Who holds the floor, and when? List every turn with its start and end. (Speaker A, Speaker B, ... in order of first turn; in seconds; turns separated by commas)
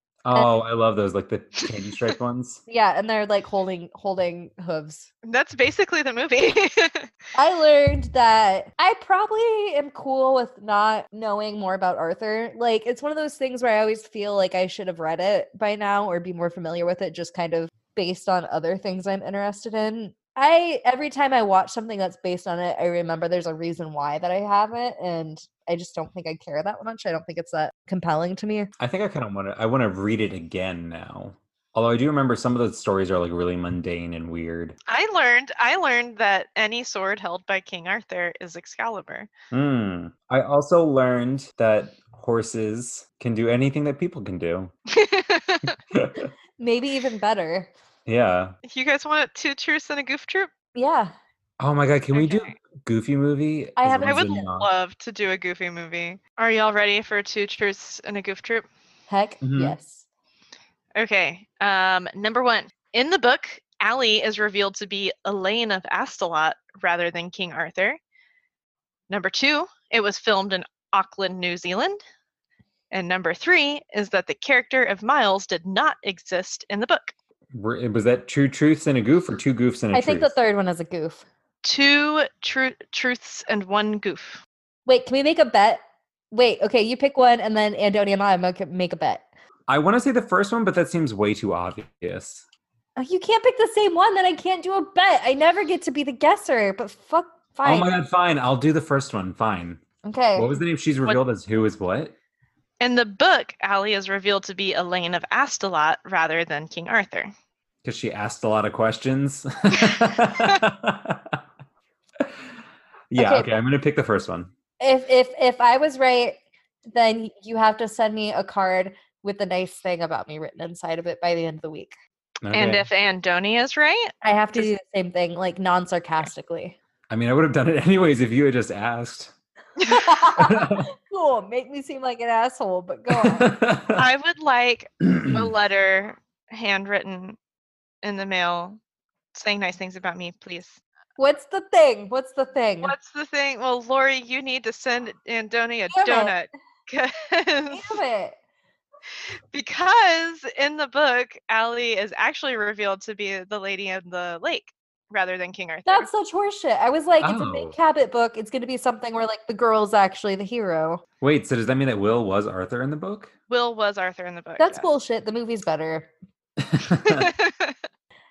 Speaker A: 0.2-2.6, Speaker B: 2.7-5.1, Speaker C: 5.2-7.1, Speaker B: 7.3-28.7, Speaker A: 28.8-34.8, Speaker C: 34.9-39.3, Speaker A: 39.5-44.7, Speaker C: 44.9-45.7, Speaker A: 45.9-46.3, Speaker B: 46.6-47.7, Speaker A: 48.1-48.5, Speaker C: 48.6-50.5, Speaker B: 50.8-51.1, Speaker A: 51.6-54.7, Speaker C: 52.1-52.5, Speaker B: 53.8-54.3, Speaker C: 54.0-58.7, Speaker B: 59.1-60.0, Speaker A: 59.4-59.8, Speaker C: 61.0-68.0, Speaker C: 69.1-72.0, Speaker C: 72.9-77.1, Speaker A: 77.5-80.3, Speaker B: 79.9-81.2, Speaker C: 81.6-84.4, Speaker B: 84.9-89.3, Speaker A: 89.7-92.4, Speaker B: 93.0-97.9, Speaker A: 97.6-99.8, Speaker B: 100.0-100.5, Speaker A: 100.3-102.1, Speaker C: 102.8-107.3, Speaker A: 107.8-111.4, Speaker C: 109.7-110.6, Speaker A: 113.1-114.5, Speaker B: 113.2-113.5, Speaker B: 114.8-121.9, Speaker A: 122.4-122.9, Speaker C: 122.5-124.7, Speaker B: 124.2-126.8, Speaker A: 127.1-129.3, Speaker B: 129.8-133.6, Speaker A: 130.4-130.8, Speaker A: 133.1-134.0, Speaker C: 134.0-137.4, Speaker A: 135.0-135.5, Speaker C: 138.0-138.8, Speaker C: 139.3-140.8, Speaker B: 141.2-142.9, Speaker C: 142.8-148.0, Speaker B: 145.9-146.3, Speaker B: 147.7-148.4, Speaker C: 149.5-156.1, Speaker B: 155.9-161.0, Speaker A: 157.2-157.8, Speaker A: 161.2-163.3, Speaker C: 163.5-165.0, Speaker B: 164.6-166.1, Speaker A: 166.7-167.3, Speaker C: 166.9-167.8